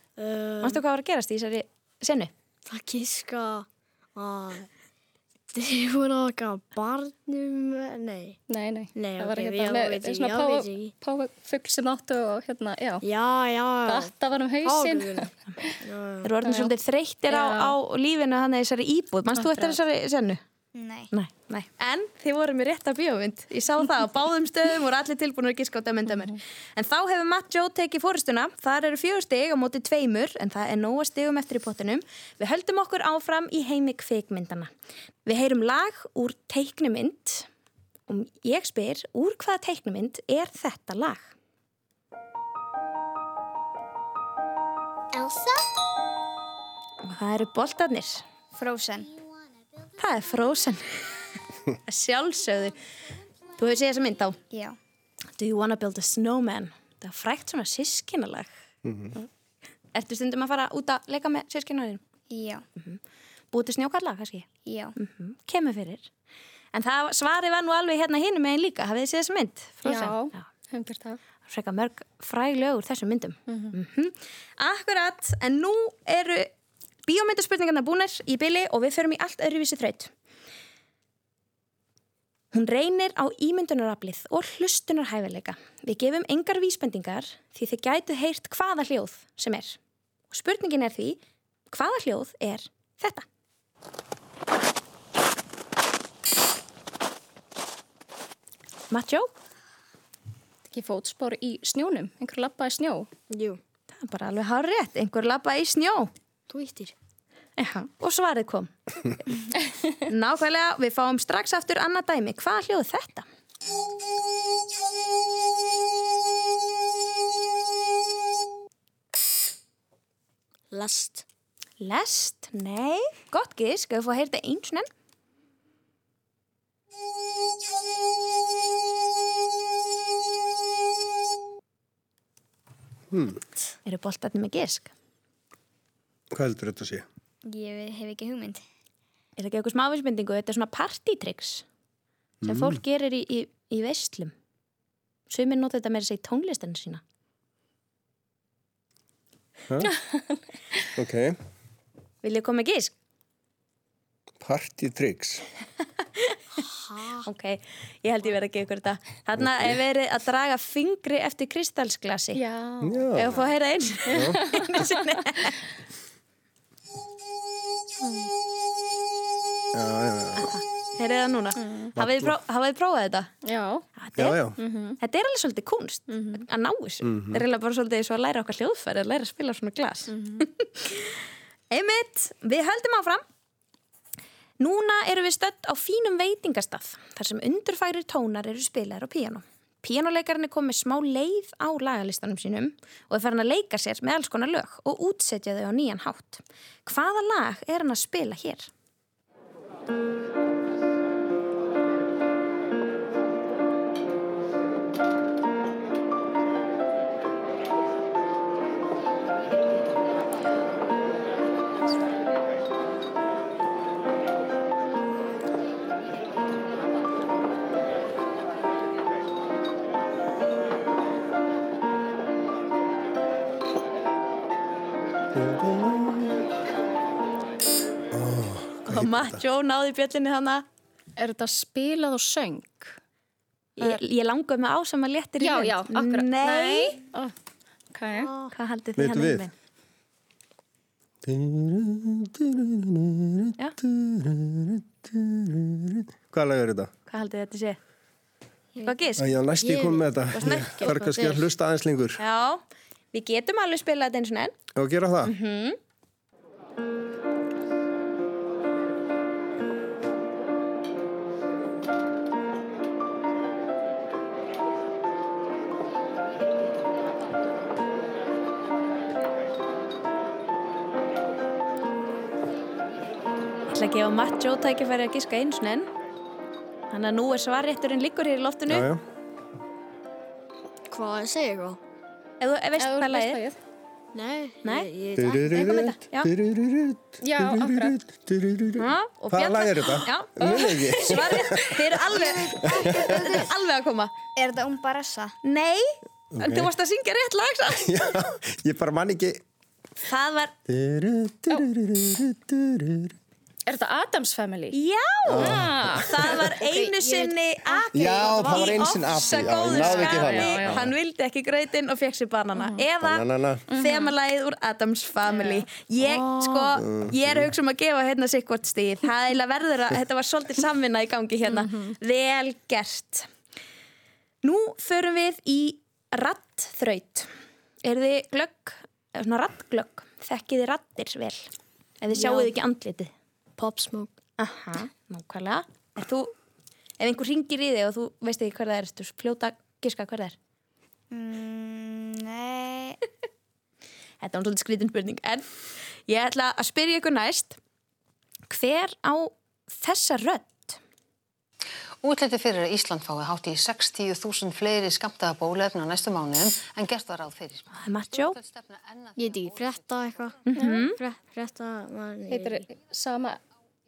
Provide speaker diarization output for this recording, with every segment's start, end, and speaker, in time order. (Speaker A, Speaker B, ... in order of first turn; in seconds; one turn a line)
Speaker A: 0.2-0.8
Speaker B: 0.6-2.3
Speaker A: 2.7-4.7
Speaker A: 5.5-8.4
Speaker C: 8.5-13.1
Speaker A: 8.9-10.9
Speaker A: 13.0-15.3
Speaker C: 13.8-15.8
Speaker A: 15.8-16.3
Speaker B: 16.2-20.4
Speaker C: 16.4-16.7
Speaker C: 17.3-17.8
Speaker C: 19.3-19.8
Speaker D: 20.7-21.1
Speaker B: 21.1-34.7
Speaker B: 35.2-37.5
Speaker B: 38.1-41.3
Speaker B: 47.0-48.2
Speaker D: 48.6-49.1
Speaker B: 50.0-51.1
Speaker B: 51.9-52.8
Speaker B: 53.6-54.4
Speaker D: 54.5-54.8
Speaker B: 55.4-58.5
Speaker E: 58.9-59.1
Speaker B: 59.9-62.0
Speaker D: 62.3-62.6
Speaker B: 63.5-66.1
Speaker D: 64.7-65.0
Speaker B: 66.7-70.5
Speaker C: 69.8-71.2
Speaker B: 71.5-76.5
Speaker C: 73.5-73.8
Speaker B: 77.1-80.1
Speaker B: 82.5-89.8
Speaker B: 90.3-93.2
Speaker B: 98.9-99.3
Speaker C: 100.7-103.1
Speaker A: 103.3-103.6
Speaker B: 103.9-106.1
Speaker A: 106.5-106.9
Speaker B: 107.6-108.7
Speaker B: 109.2-113.2
Speaker A: 120.7-121.2
Speaker B: 121.8-124.9
Speaker E: 133.1-133.4
Speaker B: 133.8-134.9
Speaker E: 136.3-137.1
Speaker D: 137.4-138.6
Speaker B: 139.4-141.6
Speaker E: 142.4-142.8
Speaker B: 142.4-144.3
Speaker B: 145.3-147.0
Speaker E: 149.7-149.9
Speaker E: 150.9-151.3
Speaker B: 152.2-152.9
Speaker E: 154.4-155.4
Speaker A: 156.7-157.2
Speaker B: 157.2-162.4
Speaker C: 162.3-163.1
Speaker E: 162.8-163.4
Speaker B: 163.1-165.6
Speaker E: 164.1-164.4
Speaker C: 168.0-168.3
Speaker E: 169.7-170.5
Speaker B: 170.4-173.3
Speaker C: 171.6-171.9
Speaker E: 172.0-172.4
Speaker C: 173.4-173.8
Speaker B: 174.0-174.4
Speaker E: 174.2-174.6
Speaker C: 174.6-175.0
Speaker B: 175.0-183.2
Speaker C: 176.1-176.5
Speaker E: 177.0-177.4
Speaker C: 180.1-180.4
Speaker B: 184.6-198.7
Speaker E: 225.4-226.3
Speaker E: 228.1-229.4
Speaker B: 228.9-230.6
Speaker C: 231.2-233.0
Speaker B: 233.8-237.1
Speaker C: 235.4-237.3
Speaker C: 237.9-238.3
Speaker B: 238.5-239.5
Speaker E: 239.0-239.5
Speaker E: 241.2-246.9
Speaker B: 247.1-247.8
Speaker B: 248.8-249.3
Speaker E: 249.2-252.2
Speaker A: 249.6-251.5
Speaker B: 252.2-252.6
Speaker B: 253.1-254.5
Speaker E: 254.8-255.3
Speaker B: 255.2-255.8
Speaker B: 273.7-275.9
Speaker B: 276.9-278.9
Speaker E: 278.7-279.0
Speaker A: 280.9-281.8
Speaker B: 282.4-283.4
Speaker C: 282.8-283.6
Speaker A: 284.1-285.5
Speaker B: 284.6-284.9
Speaker E: 285.2-292.0
Speaker B: 285.5-286.3
Speaker C: 287.2-288.0
Speaker B: 288.8-294.1
Speaker D: 292.1-293.2
Speaker E: 292.6-293.4
Speaker D: 294.4-295.4
Speaker B: 295.4-297.9
Speaker E: 296.4-296.7
Speaker E: 297.9-299.4
Speaker B: 300.0-300.6
Speaker E: 300.7-303.1
Speaker C: 303.7-304.8
Speaker B: 304.7-323.2
Speaker E: 305.3-306.4
Speaker C: 305.3-306.2
Speaker A: 306.6-307.3
Speaker E: 307.9-310.9
Speaker A: 308.1-308.8
Speaker C: 309.7-310.8
Speaker C: 312.6-312.9
Speaker E: 313.0-313.6
Speaker C: 313.7-314.1
Speaker C: 315.4-315.6
Speaker A: 316.2-316.7
Speaker E: 316.8-317.5
Speaker B: 324.4-327.3
Speaker B: 327.8-331.5
Speaker B: 332.0-333.1
Speaker A: 332.2-332.5
Speaker A: 333.6-334.1
Speaker B: 334.4-336.3
Speaker B: 337.0-340.4
Speaker D: 341.1-343.0
Speaker B: 344.2-345.5
Speaker B: 346.1-347.6
Speaker B: 348.5-350.8
Speaker F: 352.0-360.5
Speaker B: 357.7-358.4
Speaker A: 359.2-360.4
Speaker B: 360.5-361.0
Speaker C: 360.6-360.9
Speaker A: 360.9-362.6
Speaker C: 362.3-363.4